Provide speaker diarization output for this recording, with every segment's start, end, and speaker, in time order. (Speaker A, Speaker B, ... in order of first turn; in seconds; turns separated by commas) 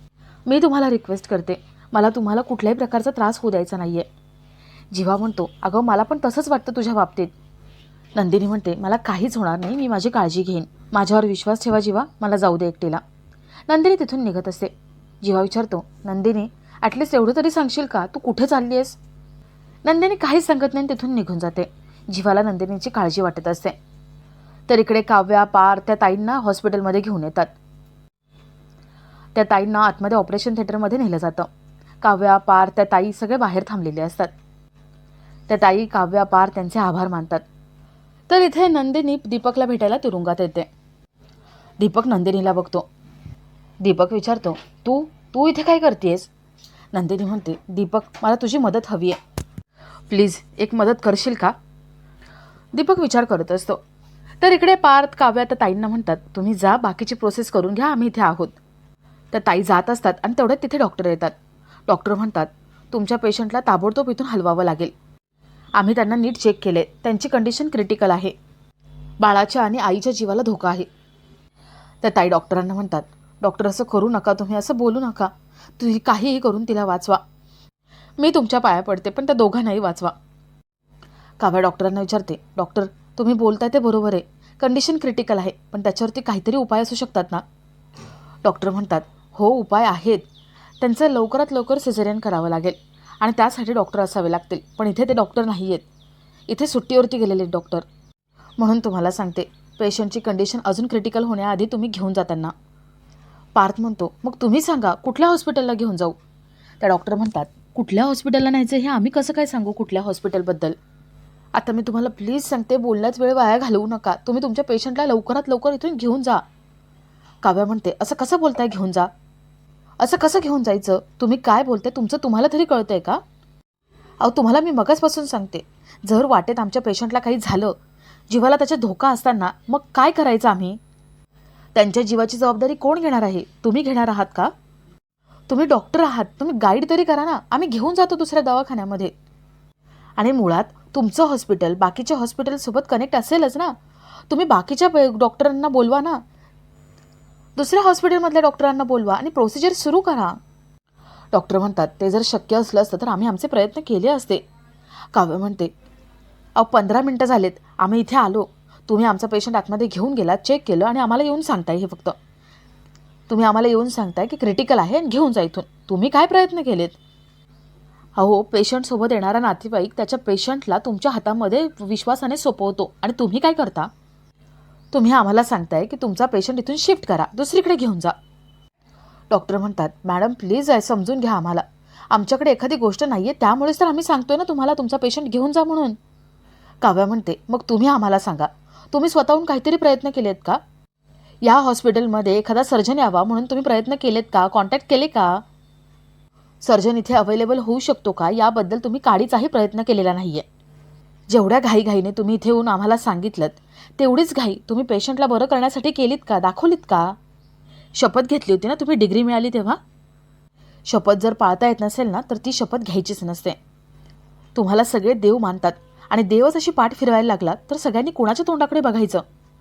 Speaker A: 0.5-4.1, Speaker A: 4.9-7.3, Speaker A: 8.1-13.0, Speaker A: 13.7-19.0, Speaker A: 19.8-23.8, Speaker A: 24.7-27.5, Speaker A: 29.3-31.5, Speaker A: 32.0-34.3, Speaker A: 35.5-37.4, Speaker A: 38.3-40.7, Speaker A: 41.8-42.9, Speaker A: 43.8-46.3, Speaker A: 46.9-49.2, Speaker A: 50.1-51.5, Speaker A: 52.7-53.8, Speaker A: 54.4-58.6, Speaker A: 59.3-61.3, Speaker A: 61.9-64.9, Speaker A: 65.8-68.3, Speaker A: 69.2-70.9, Speaker A: 72.0-77.2, Speaker A: 78.2-80.1, Speaker A: 81.4-87.4, Speaker A: 88.4-90.2, Speaker A: 90.8-95.8, Speaker A: 96.5-97.8, Speaker A: 98.6-102.5, Speaker A: 103.5-106.2, Speaker A: 106.8-110.8, Speaker A: 111.5-116.4, Speaker A: 117.4-119.1, Speaker A: 120.0-123.2, Speaker A: 124.2-127.8, Speaker A: 128.3-130.8, Speaker A: 131.7-134.5, Speaker A: 135.5-139.1, Speaker A: 140.2-143.7, Speaker A: 144.3-146.2, Speaker A: 147.6-150.4, Speaker A: 151.3-154.4, Speaker A: 155.1-155.7, Speaker A: 156.6-162.2, Speaker A: 163.3-167.0, Speaker A: 168.2-173.9, Speaker A: 174.9-178.1, Speaker A: 179.3-185.9, Speaker A: 186.8-190.6, Speaker A: 191.4-195.4, Speaker A: 196.6-200.4, Speaker A: 201.3-207.1, Speaker A: 207.9-209.8, Speaker A: 210.9-213.6, Speaker A: 214.5-219.2